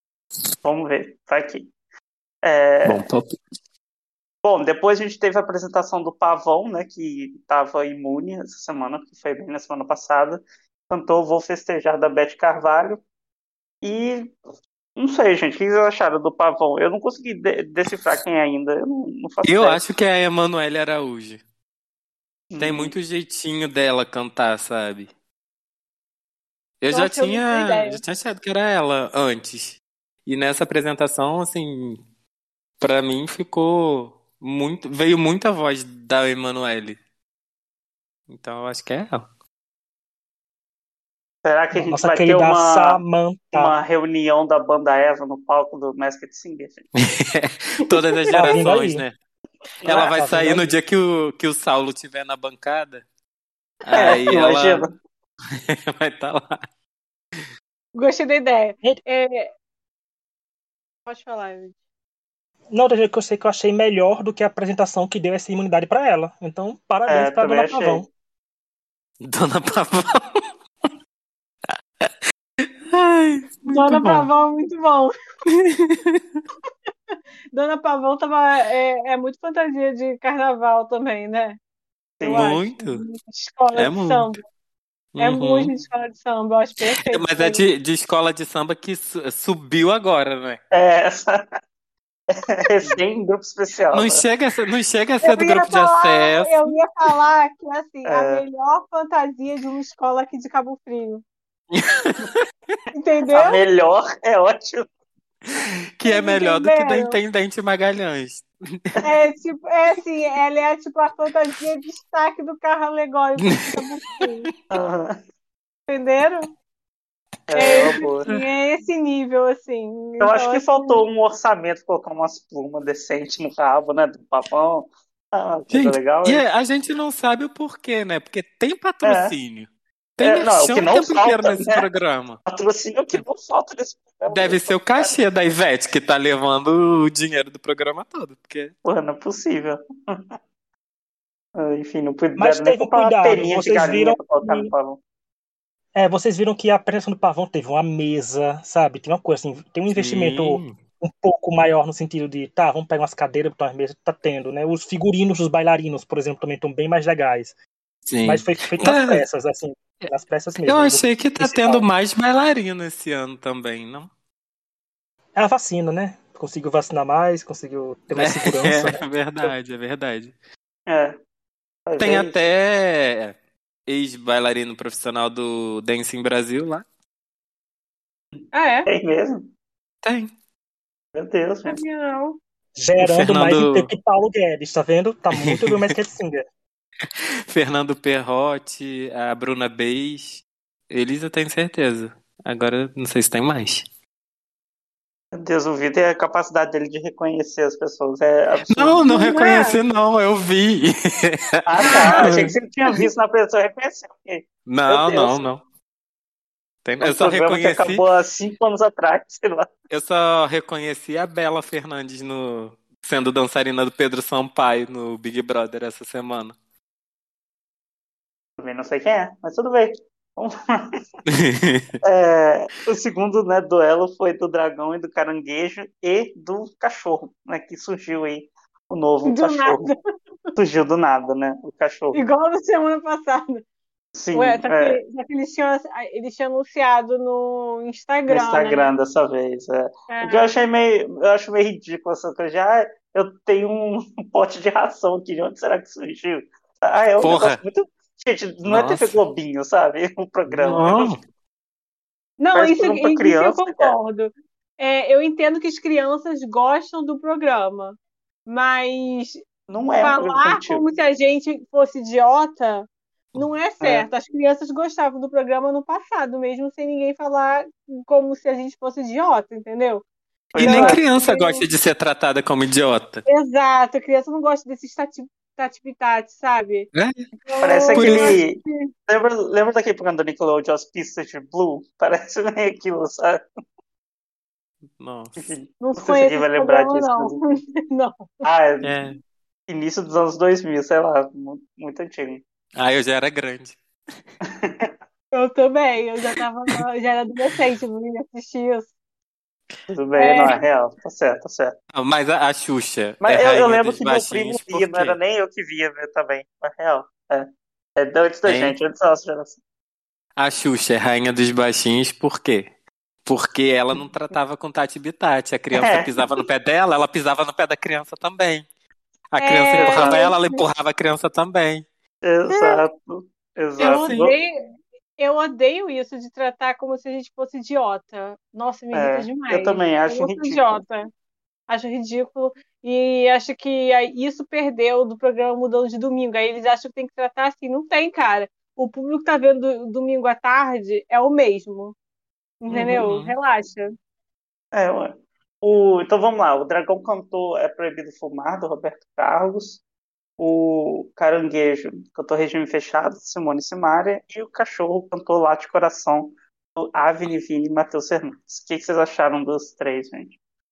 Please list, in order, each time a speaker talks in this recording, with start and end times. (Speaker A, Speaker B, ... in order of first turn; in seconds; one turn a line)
Speaker A: 0.6-1.7
Speaker A: 2.5-3.0
Speaker B: 2.8-3.4
Speaker A: 4.4-13.0
Speaker A: 13.8-14.3
Speaker A: 15.0-19.8
Speaker B: 19.5-21.4
Speaker A: 22.5-22.9
Speaker B: 22.6-25.1
Speaker B: 26.8-32.0
Speaker C: 26.9-28.0
Speaker B: 32.8-37.0
Speaker B: 38.3-39.3
Speaker A: 41.4-43.0
Speaker D: 41.7-43.8
Speaker A: 43.5-46.9
Speaker B: 47.0-49.1
Speaker D: 48.3-49.0
Speaker A: 49.9-50.1
Speaker B: 49.9-53.0
Speaker D: 49.9-50.7
Speaker B: 53.8-54.8
Speaker A: 54.0-54.9
Speaker B: 55.7-56.6
Speaker C: 58.0-59.5
Speaker C: 61.1-61.8
Speaker D: 62.7-68.1
Speaker A: 67.1-68.1
Speaker B: 69.2-70.4
Speaker B: 72.9-74.3
Speaker C: 73.7-75.1
Speaker B: 75.7-76.4
Speaker C: 77.5-81.6
Speaker A: 82.2-82.5
Speaker C: 82.2-84.4
Speaker B: 82.3-83.0
Speaker B: 83.8-84.3
Speaker B: 85.2-85.7
Speaker C: 85.2-87.7
Speaker B: 87.1-90.6
Speaker A: 90.7-91.5
Speaker A: 92.3-94.2
Speaker B: 93.9-96.8
Speaker C: 95.2-101.2
Speaker A: 98.1-98.5
Speaker B: 101.7-102.8
Speaker C: 103.0-103.6
Speaker A: 103.3-104.9
Speaker B: 105.5-109.0
Speaker C: 106.0-107.2
Speaker C: 109.0-114.5
Speaker B: 113.5-113.7
Speaker A: 114.7-115.2
Speaker C: 115.9-116.5
Speaker A: 117.5-118.3
Speaker C: 117.5-121.0
Speaker A: 120.2-126.4
Speaker B: 125.7-132.4
Speaker A: 129.0-129.3
Speaker A: 130.2-131.8
Speaker A: 132.5-135.1
Speaker B: 134.3-138.7
Speaker A: 138.8-140.2
Speaker A: 141.6-145.0
Speaker D: 142.4-144.7
Speaker D: 145.9-157.5
Speaker B: 149.9-150.7
Speaker B: 158.1-159.2
Speaker D: 158.2-161.9
Speaker B: 160.7-164.1
Speaker D: 165.4-169.0
Speaker B: 168.2-170.3
Speaker A: 170.9-171.2
Speaker A: 171.9-172.3
Speaker B: 172.0-173.3
Speaker B: 173.9-176.8
Speaker C: 178.5-178.9
Speaker A: 178.9-179.5
Speaker B: 180.0-180.3
Speaker A: 181.2-181.8
Speaker C: 181.7-182.4
Speaker D: 182.8-186.4
Speaker B: 183.0-183.9
Speaker B: 185.5-185.8
Speaker B: 187.5-193.9
Speaker A: 195.3-199.0
Speaker B: 198.7-203.1
Speaker C: 199.1-199.8
Speaker A: 201.7-205.5
Speaker C: 201.8-202.4
Speaker B: 204.7-205.6
Speaker B: 206.8-208.0
Speaker A: 207.0-209.7
Speaker B: 209.9-216.6
Speaker A: 218.6-220.9
Speaker B: 221.3-222.0
Speaker A: 222.0-229.8
Speaker C: 229.3-230.0
Speaker A: 230.6-232.2
Speaker C: 232.1-233.6
Speaker A: 234.2-235.0
Speaker C: 234.3-238.9
Speaker A: 238.3-251.1
Speaker C: 240.1-240.5
Speaker B: 247.2-247.6
Speaker B: 248.7-249.2
Speaker B: 250.5-251.2
Speaker C: 252.4-259.4
Speaker A: 252.5-254.0
Speaker A: 259.7-260.8
Speaker C: 260.0-270.0
Speaker A: 263.8-264.1
Speaker A: 270.6-271.0
Speaker B: 270.6-273.2
Speaker C: 270.6-271.7
Speaker C: 273.3-276.9
Speaker B: 276.9-277.3
Speaker C: 277.4-278.9
Speaker A: 277.6-283.4
Speaker B: 277.9-278.4
Speaker B: 285.0-285.6
Speaker A: 285.4-287.6
Speaker C: 285.8-288.4
Speaker A: 288.4-289.0
Speaker B: 288.8-289.2
Speaker A: 289.7-292.4
Speaker B: 292.8-293.8
Speaker A: 294.5-294.9
Speaker C: 295.3-298.9
Speaker A: 299.9-301.8
Speaker C: 300.2-300.5
Speaker B: 301.9-305.2
Speaker A: 303.2-309.6
Speaker B: 308.5-308.8
Speaker B: 310.4-312.7
Speaker B: 313.2-318.6
Speaker A: 315.7-316.4
Speaker B: 319.3-321.8
Speaker C: 319.4-320.6
Speaker A: 319.7-320.2
Speaker A: 322.2-324.4
Speaker C: 322.5-322.8
Speaker C: 323.8-324.5
Speaker B: 323.9-324.2
Speaker C: 325.2-331.1
Speaker A: 328.9-330.8
Speaker C: 331.7-341.9
Speaker C: 342.6-343.9
Speaker A: 342.7-343.0
Speaker B: 343.0-343.3
Speaker A: 344.7-349.8
Speaker A: 350.4-360.4